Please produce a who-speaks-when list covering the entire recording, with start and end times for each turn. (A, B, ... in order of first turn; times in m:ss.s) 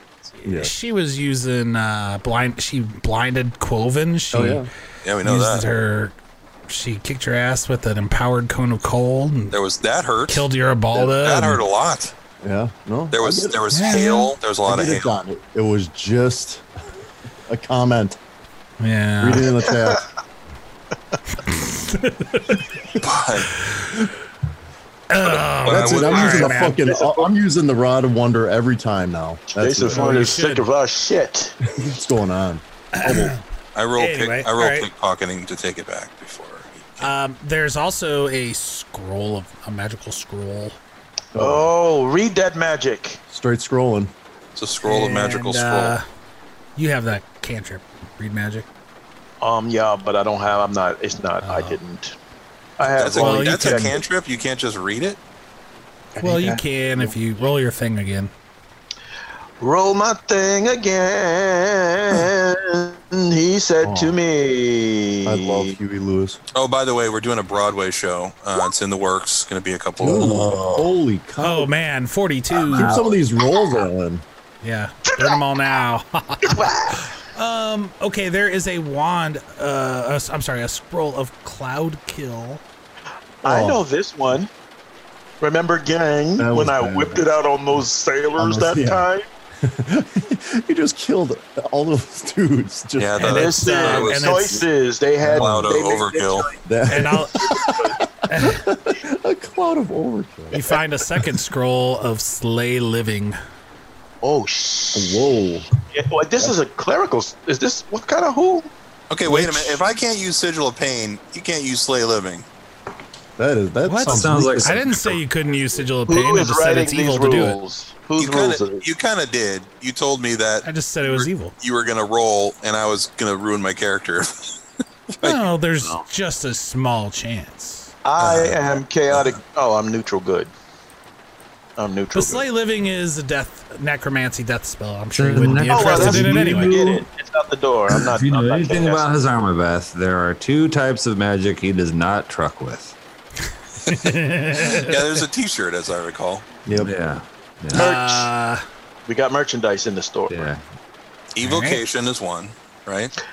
0:00.4-0:04.7 A
0:00.4-0:00.7 B
0:04.3-0:04.7 B
0:05.0-0:05.6 C
0:05.2-0:06.1 A
0:06.7-0:09.6 A
0:09.5-0:10.5 C
0:10.3-0:11.6 A
0:11.0-0:12.1 C
0:12.4-0:13.7 B
0:13.1-0:15.2 C
0:13.7-0:14.3 A
0:14.6-0:16.6 B
0:17.5-0:18.2 B
0:18.8-0:19.4 A
0:19.2-0:20.0 B
0:21.4-0:22.7 A
0:23.0-0:23.6 C
0:23.5-0:24.0 A
0:25.1-0:26.8 A
0:25.2-0:26.6 C
0:25.6-0:30.1 B
0:26.6-0:27.3 D
0:29.5-0:31.6 D
0:29.8-0:30.6 A
0:31.7-0:33.3 B
0:32.9-0:33.4 A
0:33.7-0:37.1 C
0:34.0-0:34.9 A
0:37.0-0:40.8 A
0:41.3-0:41.7 B
0:41.4-0:43.2 D
0:43.3-0:44.1 B
0:44.5-0:46.0 C
0:44.8-0:46.0 A
0:46.8-0:48.6 A
0:49.4-0:52.1 D
0:51.4-0:51.8 A
0:52.8-0:54.0 D
0:52.8-0:55.2 C
0:53.2-0:54.0 A
0:56.2-0:56.6 D
0:56.2-0:58.3 A
0:59.6-1:05.7 D
1:03.8-1:04.2 B
1:05.2-1:06.4 B
1:06.5-1:10.4 C
1:10.0-1:11.7 B
1:10.1-1:11.0 E
1:11.4-1:13.0 A
1:12.7-1:14.2 B
1:12.7-1:13.1 E
1:14.6-1:16.6 A
1:16.4-1:17.1 D
1:17.3-1:22.6 A
1:23.4-1:24.5 D
1:23.4-1:23.8 B
1:25.4-1:29.3 D
1:26.4-1:27.2 B
1:28.3-1:29.1 B
1:29.6-1:33.4 B
1:33.0-1:34.3 C
1:33.2-1:34.6 A
1:33.2-1:36.6 D
1:35.2-1:36.5 C
1:36.6-1:40.6 B
1:36.9-1:37.6 A
1:37.5-1:37.9 D
1:38.3-1:38.6 A
1:40.5-1:43.4 A
1:44.2-1:45.3 D
1:44.9-1:45.7 B
1:45.9-1:48.7 D
1:49.1-1:52.4 C
1:49.2-1:49.8 A
1:53.4-1:54.9 B
1:53.8-1:57.6 A
1:54.1-1:55.2 E
1:56.1-1:58.8 D
1:58.2-2:04.3 C
2:00.6-2:01.5 A
2:05.2-2:08.6 A
2:08.0-2:10.5 D
2:11.8-2:12.4 D
2:12.1-2:16.8 A
2:15.1-2:17.0 E
2:15.6-2:19.1 D
2:17.9-2:23.0 E
2:23.8-2:25.0 A
2:24.7-2:26.4 C
2:26.6-2:26.9 B
2:26.8-2:27.8 E
2:27.7-2:28.6 A
2:27.7-2:28.3 D
2:29.0-2:30.5 D
2:30.3-2:30.6 E
2:31.3-2:33.1 C
2:31.4-2:31.8 A